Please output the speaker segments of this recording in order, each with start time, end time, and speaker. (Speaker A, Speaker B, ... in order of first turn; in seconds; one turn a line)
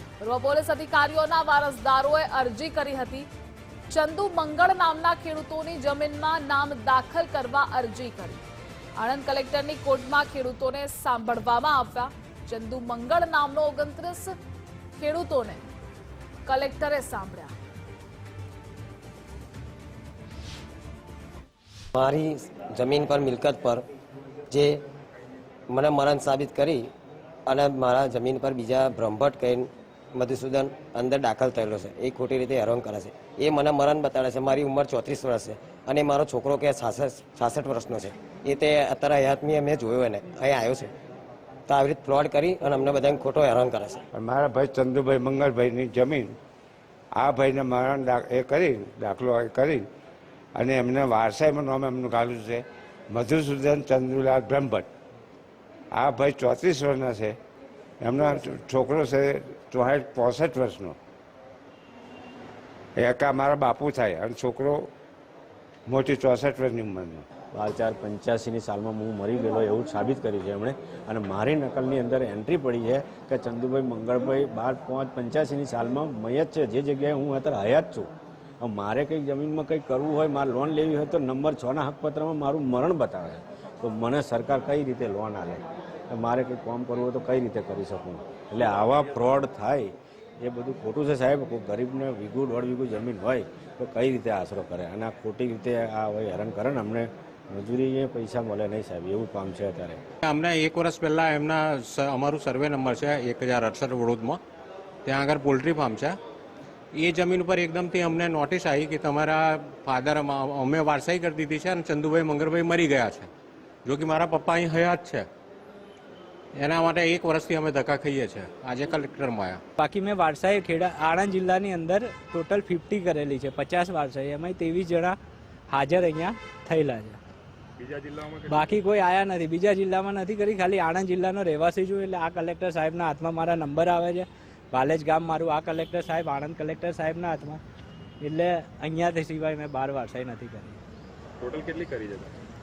Speaker A: 0.2-3.3
Speaker A: 3.9-8.4
Speaker A: 9.0-14.3
Speaker A: 15.0-15.6
Speaker A: 16.5-17.5
Speaker B: 22.0-22.3
Speaker B: 25.8-26.7
Speaker B: 27.5-29.3
Speaker B: 30.2-32.9
Speaker B: 33.5-40.9
Speaker B: 41.7-43.8
Speaker C: 44.1-46.4
Speaker C: 47.2-49.9
Speaker C: 50.5-54.9
Speaker C: 55.9-57.4
Speaker C: 58.0-61.0
Speaker C: 63.0-64.8
Speaker C: 65.9-67.3
Speaker D: 67.5-78.1
Speaker D: 78.6-100.0
Speaker E: 100.2-104.4
Speaker E: 105.0-106.2
Speaker E: 106.9-113.3
Speaker E: 113.8-115.3
Speaker E: 116.5-119.6
Speaker F: 119.8-125.2
Speaker F: 125.7-127.2
Speaker G: 127.8-128.8
Speaker F: 128.5-137.6
Speaker F: 138.2-140.8
Speaker G: 141.4-142.3